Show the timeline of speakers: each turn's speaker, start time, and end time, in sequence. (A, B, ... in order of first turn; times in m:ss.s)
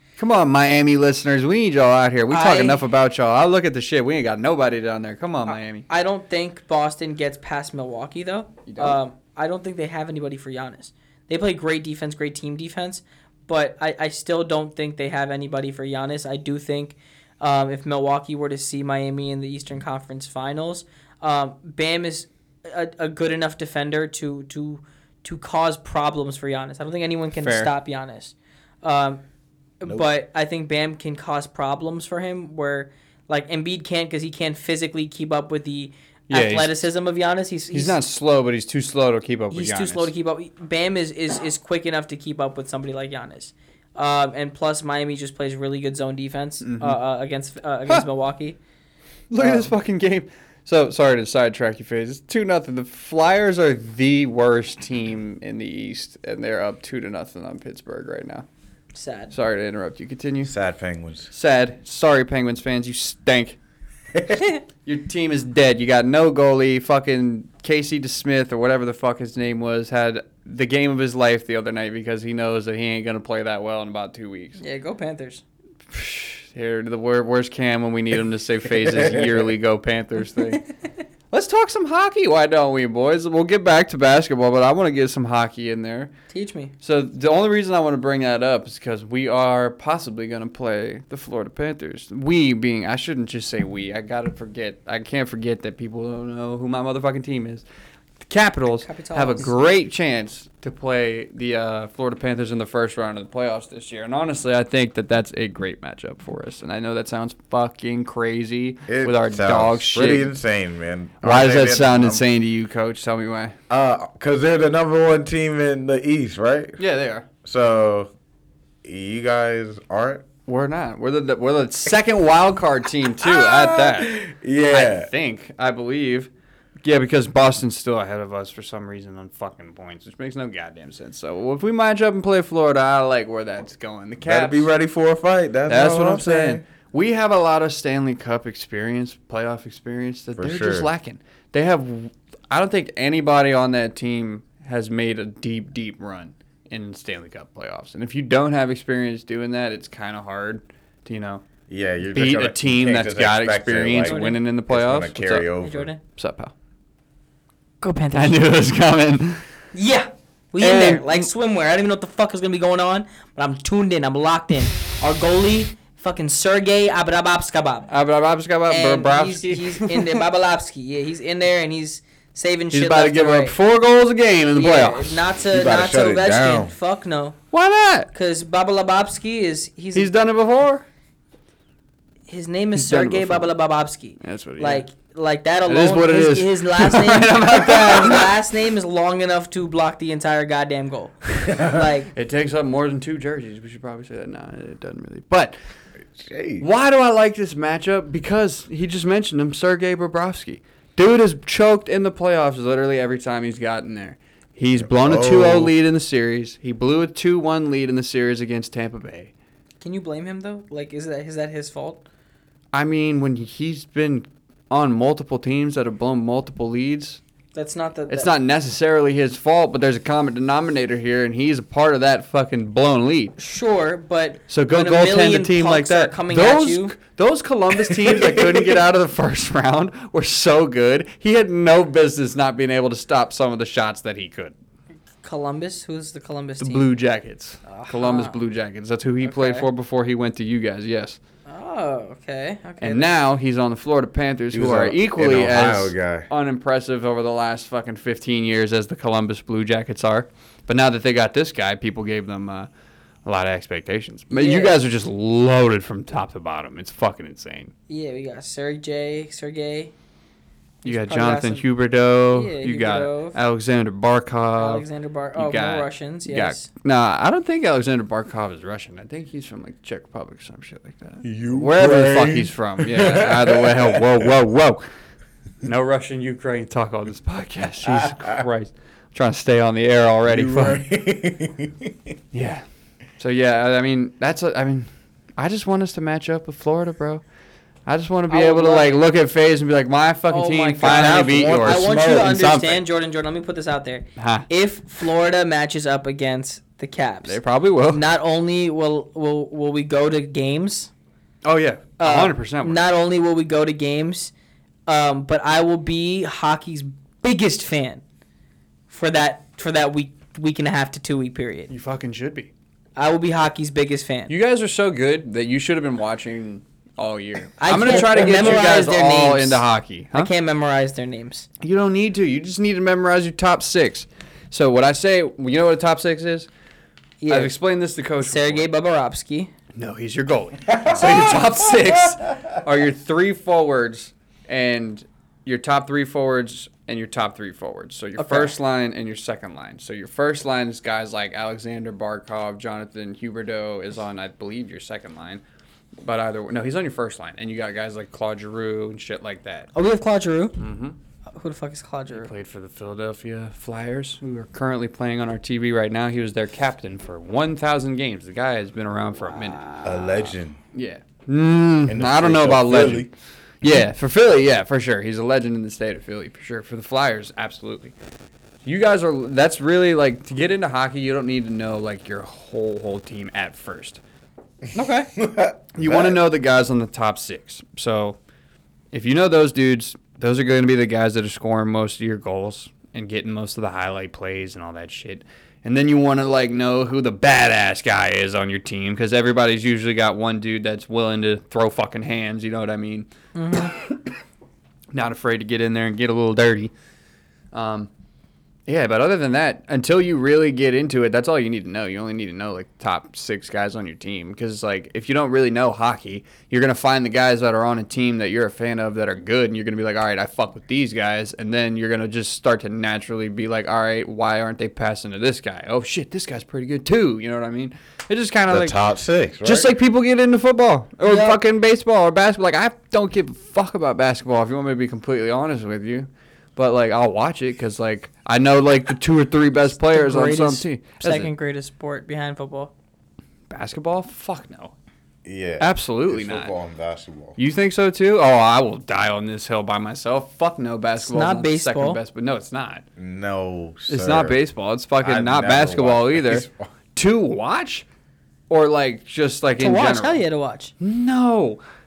0:00.2-0:05.8 A
0:02.3-0:02.8 B
0:05.9-0:29.2 B
0:08.6-0:09.0 A
0:27.4-0:27.7 A
0:29.8-0:38.0 B
0:36.3-0:36.8 A
0:37.7-0:40.1 A
0:39.5-0:48.6 B
0:46.6-0:47.0 A
0:49.3-0:58.4 A
0:49.4-0:49.7 B
0:58.9-0:59.3 B
0:59.3-1:00.5 A
1:00.4-1:01.3 C
1:01.3-1:03.6 A
1:04.8-1:14.6 A
1:14.6-1:15.4 B
1:15.9-1:20.6 A
1:18.8-1:19.5 C
1:21.3-1:26.1 A
1:26.3-1:26.7 B
1:26.8-1:37.6 A
1:38.2-1:50.3 A
1:38.8-1:39.6 B
1:48.9-1:52.2 C
1:51.2-1:53.5 A
1:53.7-1:56.8 C
1:56.8-1:57.3 A
1:57.4-1:58.1 C
1:58.8-2:00.2 C
2:00.5-2:06.3 A
2:03.2-2:05.1 C
2:06.8-2:14.7 A
2:14.2-2:16.6 C
2:15.7-2:31.4 A
2:20.4-2:20.9 C
2:31.7-2:35.9 C
2:32.1-2:35.5 A
2:34.0-2:34.4 B
2:35.6-2:36.0 B
2:36.2-2:36.5 A
2:37.8-2:38.4 B
2:38.1-2:39.4 A
2:39.7-2:47.9 B
2:40.6-2:41.3 A
2:47.9-2:50.2 A
2:48.7-2:53.6 B
2:52.7-2:55.2 A
2:54.5-2:57.4 B
2:55.5-2:56.7 C
2:57.5-2:58.1 A
2:58.1-3:00.1 B
2:59.9-3:00.8 A
3:02.3-3:12.1 B
3:02.7-3:03.5 A
3:04.2-3:04.8 A
3:05.7-3:08.3 A
3:11.5-3:11.8 C
3:12.1-3:15.5 A
3:16.2-3:16.6 C
3:16.6-3:29.3 A
3:24.8-3:25.7 C
3:29.8-3:32.0 B
3:32.7-3:37.2 A
3:37.5-3:38.3 B
3:38.1-3:43.3 A
3:43.4-3:47.0 B
3:44.5-3:54.5 A
3:47.8-3:48.8 C
3:55.2-3:56.9 B
3:56.6-4:01.2 A
3:57.7-3:58.4 B
3:59.2-3:59.7 B
4:01.5-4:03.1 B
4:02.8-4:12.7 A
4:04.5-4:06.3 C
4:13.2-4:17.7 A
4:14.3-4:14.8 B
4:17.9-4:19.9 B
4:20.8-4:21.6 B
4:20.8-4:34.8 A
4:22.3-4:23.4 B
4:24.6-4:26.7 B
4:31.2-4:34.3 C
4:35.6-4:40.8 A
4:37.8-4:38.4 C
4:40.3-4:42.1 C
4:42.3-4:42.6 A
4:43.2-4:47.2 A
4:47.8-4:52.8 A
4:48.3-4:49.0 B
4:50.3-5:00.9 B
4:50.8-4:52.6 C
4:54.2-4:54.5 A
4:57.2-4:58.0 A
5:01.4-5:02.8 A
5:02.0-5:04.3 B
5:04.9-5:08.0 B
5:08.9-5:11.7 B
5:11.7-5:12.5 A
5:13.0-5:14.3 B
5:14.3-5:20.3 A
5:17.6-5:21.5 B
5:21.6-5:26.5 A
5:27.2-5:27.5 B
5:27.3-5:28.6 A
5:28.2-5:29.5 B
5:29.8-5:45.4 A
5:30.7-5:32.0 C
5:38.2-5:38.5 B
5:46.0-5:49.7 A
5:49.7-5:50.6 B
5:50.6-5:51.0 A
5:51.3-5:52.3 B
5:52.1-6:03.1 A
5:59.8-6:00.6 C
6:01.9-6:03.1 C
6:03.6-6:07.9 A
6:08.6-6:14.0 A
6:14.7-6:15.1 B
6:15.2-6:16.2 C
6:15.7-6:18.2 A
6:18.9-6:33.7 A
6:33.3-6:33.7 B
6:34.9-6:36.7 A
6:37.5-6:37.9 A
6:38.7-6:58.8 A
6:58.5-6:59.7 C
6:59.4-7:11.3 A
7:01.0-7:01.4 B
7:09.7-7:12.7 B
7:13.5-7:14.7 A
7:15.2-7:17.4 C
7:15.6-7:16.5 A
7:17.4-7:22.8 A
7:21.0-7:22.0 B
7:23.0-7:24.4 C
7:23.9-7:27.8 A
7:25.0-7:26.6 C
7:28.5-7:30.2 A
7:29.6-7:30.7 B
7:30.8-7:31.6 A